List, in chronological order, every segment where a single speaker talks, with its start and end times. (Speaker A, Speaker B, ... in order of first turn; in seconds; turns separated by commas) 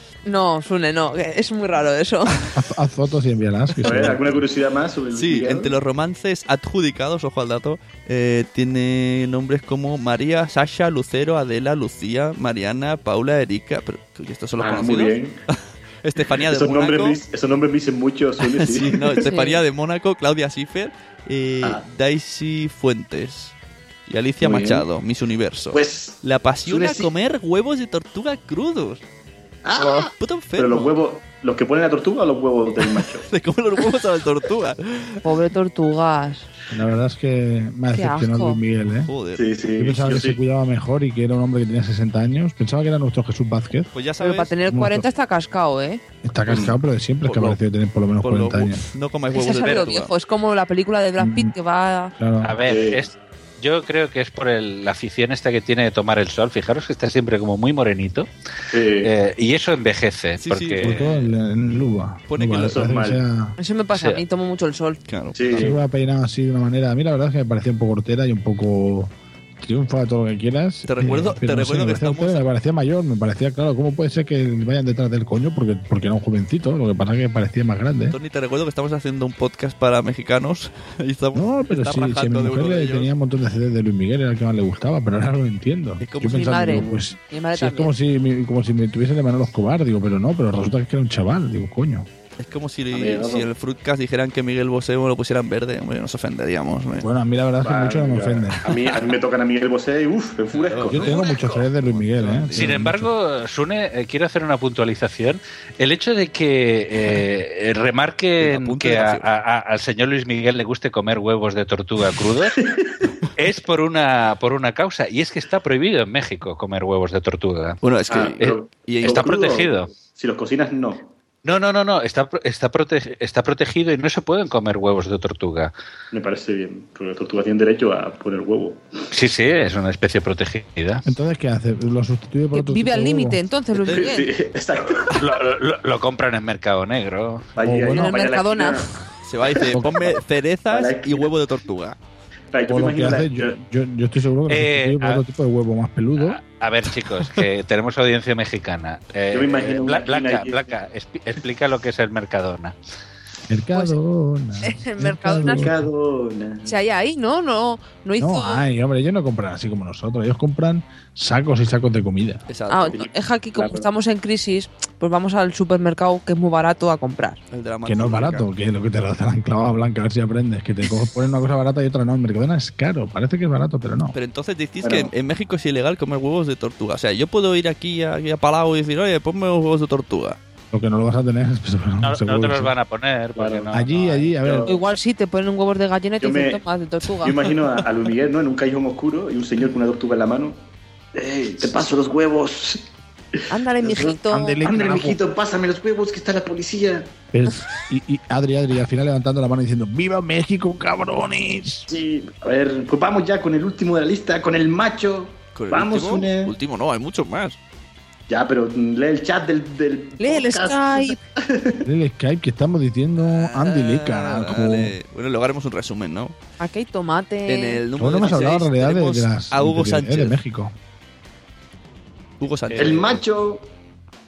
Speaker A: 0.2-2.4, Speaker B: 2.5-4.4, Speaker C: 3.8-4.2, Speaker D: 3.8-5.8, Speaker C: 5.1-15.2, Speaker D: 14.6-15.4, Speaker C: 16.0-17.2, Speaker D: 16.4-19.2, Speaker C: 18.4-23.5, Speaker A: 19.2-19.6, Speaker C: 24.1-29.0, Speaker D: 24.4-24.9, Speaker D: 25.7-27.1, Speaker D: 29.6-33.2, Speaker C: 30.2-30.9, Speaker C: 32.8-35.2, Speaker A: 35.2-36.5, Speaker B: 36.7-39.1, Speaker A: 37.9-38.6, Speaker C: 39.0-39.5, Speaker D: 39.4-40.4, Speaker B: 39.8-43.9, Speaker C: 43.9-44.5, Speaker A: 44.2-46.0, Speaker B: 44.7-45.0, Speaker B: 46.2-48.8, Speaker D: 46.5-46.8, Speaker C: 47.2-47.6, Speaker C: 48.2-50.1, Speaker A: 49.3-52.1, Speaker E: 49.6-49.9, Speaker B: 51.2-51.5, Speaker B: 52.2-52.6, Speaker E: 52.4-58.3, Speaker D: 52.6-53.0, Speaker D: 58.7-59.1, Speaker E: 59.0-61.2, Speaker C: 60.4-61.2, Speaker B: 60.8-63.6, Speaker C: 62.3-62.9, Speaker D: 62.6-63.2, Speaker A: 63.6-65.0, Speaker E: 63.9-64.2, Speaker C: 65.1-65.7, Speaker D: 65.3-65.8, Speaker B: 65.5-78.2, Speaker C: 70.9-72.5, Speaker C: 78.1-83.1, Speaker B: 81.3-92.1, Speaker C: 86.0-86.8, Speaker A: 86.2-87.9, Speaker C: 92.4-97.1, Speaker D: 92.9-93.5, Speaker B: 97.0-98.6, Speaker D: 97.6-101.2, Speaker C: 100.5-102.8, Speaker B: 100.9-103.1, Speaker E: 102.5-112.5, Speaker C: 108.4-109.3, Speaker D: 112.5-112.9, Speaker E: 113.4-117.8, Speaker C: 117.8-119.3, Speaker D: 118.1-121.1, Speaker E: 118.4-119.9, Speaker E: 121.4-125.7, Speaker D: 126.1-128.9, Speaker E: 129.1-131.0, Speaker B: 131.1-133.4, Speaker A: 132.5-134.3, Speaker C: 133.8-134.2, Speaker D: 133.8-135.2, Speaker E: 134.9-137.5, Speaker D: 137.6-138.9, Speaker B: 137.6-138.1, Speaker A: 137.9-138.9, Speaker C: 139.2-142.0, Speaker B: 139.7-140.2, Speaker D: 140.7-141.3, Speaker D: 142.5-143.6, Speaker B: 142.7-146.4, Speaker E: 144.5-145.2, Speaker E: 146.2-152.8, Speaker D: 149.3-150.7, Speaker B: 153.5-155.9, Speaker A: 154.6-155.7, Speaker D: 155.4-156.8, Speaker A: 156.7-158.7, Speaker B: 158.2-162.4, Speaker C: 162.5-163.1, Speaker A: 162.7-167.4, Speaker D: 162.9-163.9, Speaker C: 167.5-168.4, Speaker B: 167.8-174.1, Speaker C: 174.1-180.4, Speaker D: 174.8-175.1, Speaker B: 180.7-182.7, Speaker E: 182.0-184.3, Speaker D: 183.4-183.7, Speaker B: 183.7-184.7, Speaker D: 184.3-184.8, Speaker A: 184.6-187.4, Speaker D: 186.2-186.6, Speaker D: 187.2-190.6, Speaker D: 191.1-192.9, Speaker A: 193.5-194.6, Speaker D: 193.8-197.1, Speaker B: 194.3-195.2, Speaker B: 197.3-201.9, Speaker D: 201.9-206.6, Speaker C: 205.6-207.6, Speaker D: 208.3-211.9, Speaker A: 210.2-211.2, Speaker B: 211.8-214.9, Speaker C: 213.2-216.3, Speaker A: 216.6-217.8, Speaker C: 217.5-220.4, Speaker B: 217.9-220.7, Speaker C: 222.4-223.2, Speaker E: 222.7-223.2, Speaker D: 222.8-223.7